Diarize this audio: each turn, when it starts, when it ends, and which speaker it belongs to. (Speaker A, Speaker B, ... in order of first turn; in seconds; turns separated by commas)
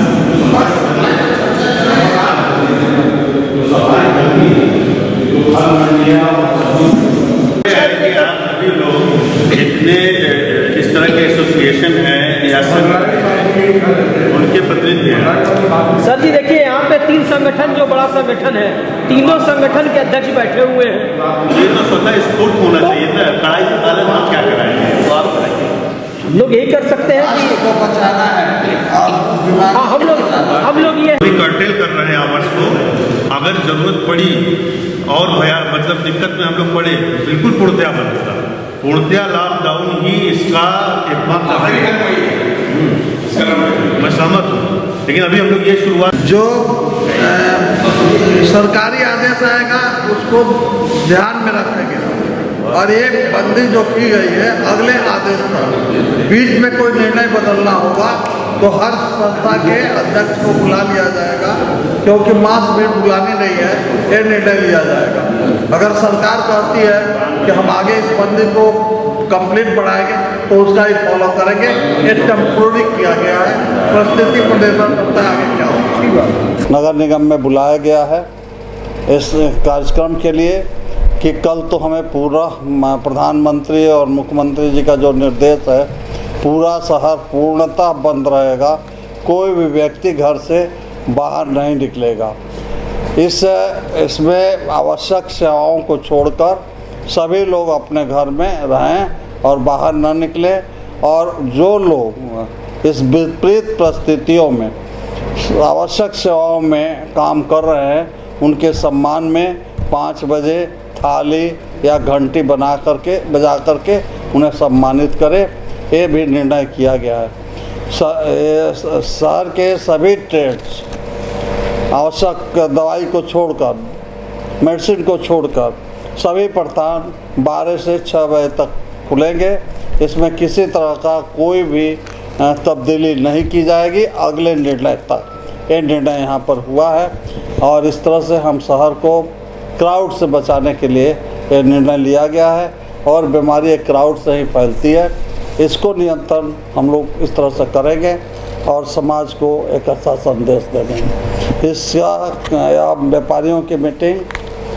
Speaker A: 0.4-2.9, Speaker B: 5.7-6.3, Speaker B: 7.6-15.4, Speaker C: 16.0-21.1, Speaker B: 21.4-25.8, Speaker C: 26.3-27.6, Speaker A: 27.0-31.0, Speaker C: 29.7-31.2, Speaker B: 31.2-34.5, Speaker B: 35.1-46.1, Speaker A: 46.2-68.8, Speaker A: 69.3-78.3, Speaker A: 79.1-80.7, Speaker A: 81.2-85.9, Speaker A: 86.4-92.4, Speaker A: 93.2-104.7, Speaker A: 105.4-117.3, Speaker A: 117.9-120.9, Speaker A: 121.9-123.8, Speaker A: 124.6-154.3